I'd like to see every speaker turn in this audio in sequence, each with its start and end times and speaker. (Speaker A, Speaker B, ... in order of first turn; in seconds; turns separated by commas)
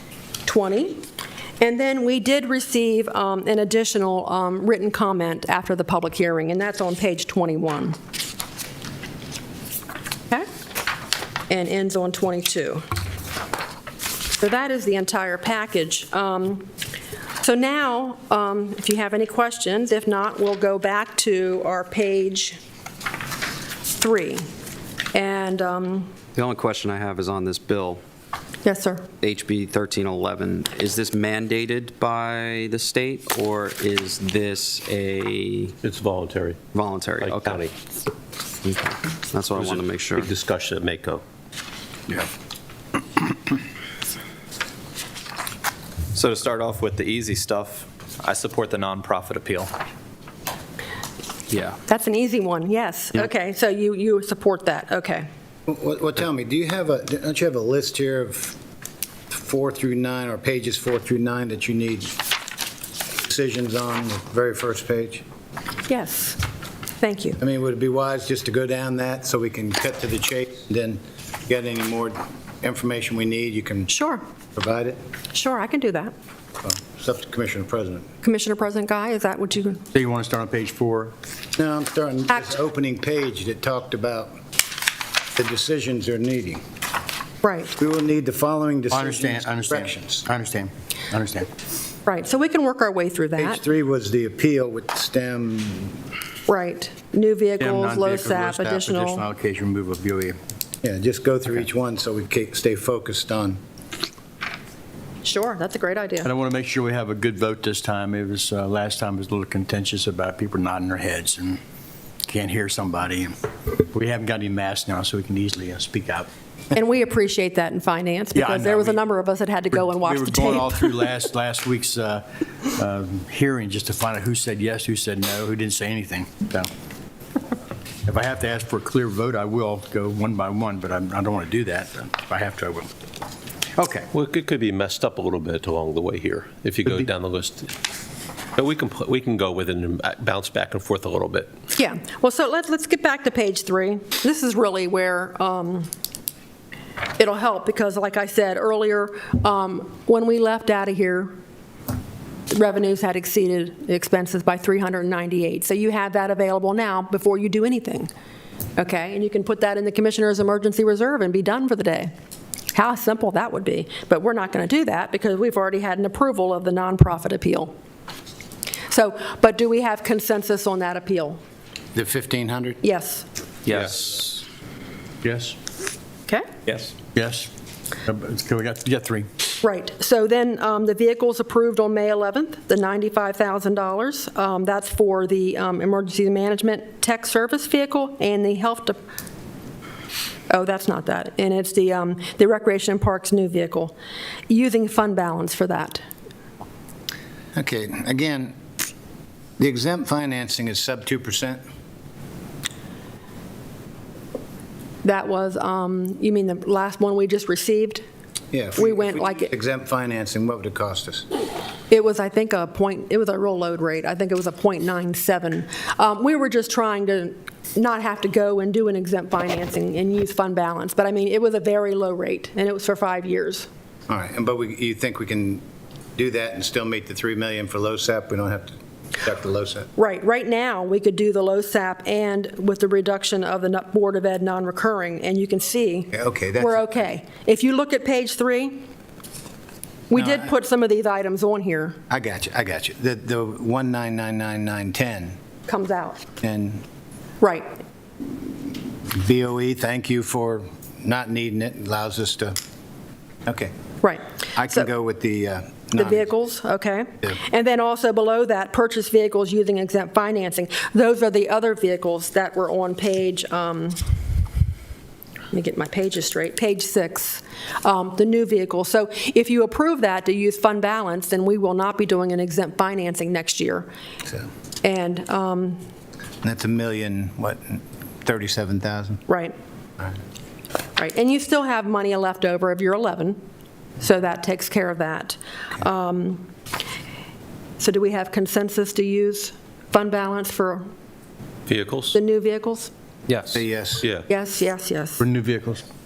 Speaker A: 0.5-1.0, Speaker A: 1.6-8.0, Speaker A: 11.5-12.8, Speaker A: 14.4-16.7, Speaker A: 17.4-22.6, Speaker A: 23.9-24.5, Speaker A: 25.1-26.2, Speaker B: 26.3-28.0, Speaker A: 28.6-29.1, Speaker B: 29.2-35.7, Speaker C: 35.8-37.7, Speaker B: 36.7-37.7, Speaker B: 38.6-40.3, Speaker C: 39.5-41.2, Speaker D: 46.1-49.7, Speaker B: 51.5-51.8, Speaker A: 51.9-55.3, Speaker E: 55.7-58.6, Speaker E: 59.3-62.2, Speaker E: 63.2-65.2, Speaker A: 65.9-66.4, Speaker A: 67.0-67.4, Speaker E: 67.4-73.9, Speaker A: 73.9-74.2, Speaker E: 74.5-75.0, Speaker A: 75.3-76.1, Speaker E: 76.6-78.1, Speaker A: 78.2-79.8, Speaker F: 79.9-81.1, Speaker E: 81.5-84.3, Speaker E: 85.3-86.6, Speaker A: 87.4-87.7, Speaker E: 87.8-90.2, Speaker F: 88.9-91.5, Speaker A: 92.0-93.6, Speaker E: 93.4-96.0, Speaker A: 96.5-99.2, Speaker F: 97.6-100.4, Speaker E: 100.8-103.6, Speaker A: 105.2-106.3, Speaker F: 106.2-111.6, Speaker F: 112.2-116.3, Speaker A: 116.7-121.1, Speaker F: 118.3-119.0, Speaker F: 119.9-126.7, Speaker F: 128.1-132.9, Speaker F: 133.8-134.1, Speaker C: 134.1-137.7, Speaker C: 138.6-141.5, Speaker A: 141.8-145.9, Speaker A: 147.2-151.3, Speaker A: 152.5-158.1, Speaker A: 158.8-162.1, Speaker A: 162.7-167.7, Speaker A: 168.9-171.4, Speaker E: 171.9-172.8, Speaker A: 172.8-173.2, Speaker F: 175.2-175.6, Speaker F: 177.1-177.5, Speaker F: 178.0-179.3, Speaker A: 179.6-189.0, Speaker A: 190.5-193.9, Speaker A: 194.5-196.0, Speaker E: 197.5-198.5, Speaker E: 199.6-201.6, Speaker A: 205.0-208.0, Speaker E: 208.5-211.2, Speaker A: 208.8-209.5, Speaker A: 211.9-223.7, Speaker E: 224.1-225.6, Speaker E: 226.2-229.9, Speaker A: 229.9-238.8, Speaker E: 236.1-236.8, Speaker A: 240.1-242.0, Speaker E: 240.1-240.4, Speaker E: 242.1-245.4, Speaker A: 245.7-246.2, Speaker E: 246.4-246.8, Speaker A: 247.4-247.7, Speaker E: 249.1-252.6, Speaker E: 253.4-253.7, Speaker A: 254.0-254.9, Speaker E: 254.6-256.3, Speaker A: 255.9-264.0, Speaker A: 265.5-273.9, Speaker A: 274.8-275.8, Speaker E: 276.4-279.2, Speaker A: 279.3-279.5, Speaker A: 280.9-283.4, Speaker A: 284.0-286.5, Speaker A: 287.8-290.9, Speaker C: 291.7-292.1, Speaker A: 292.1-292.9, Speaker E: 293.5-294.1, Speaker C: 294.0-294.2, Speaker A: 294.3-295.2, Speaker F: 295.2-295.8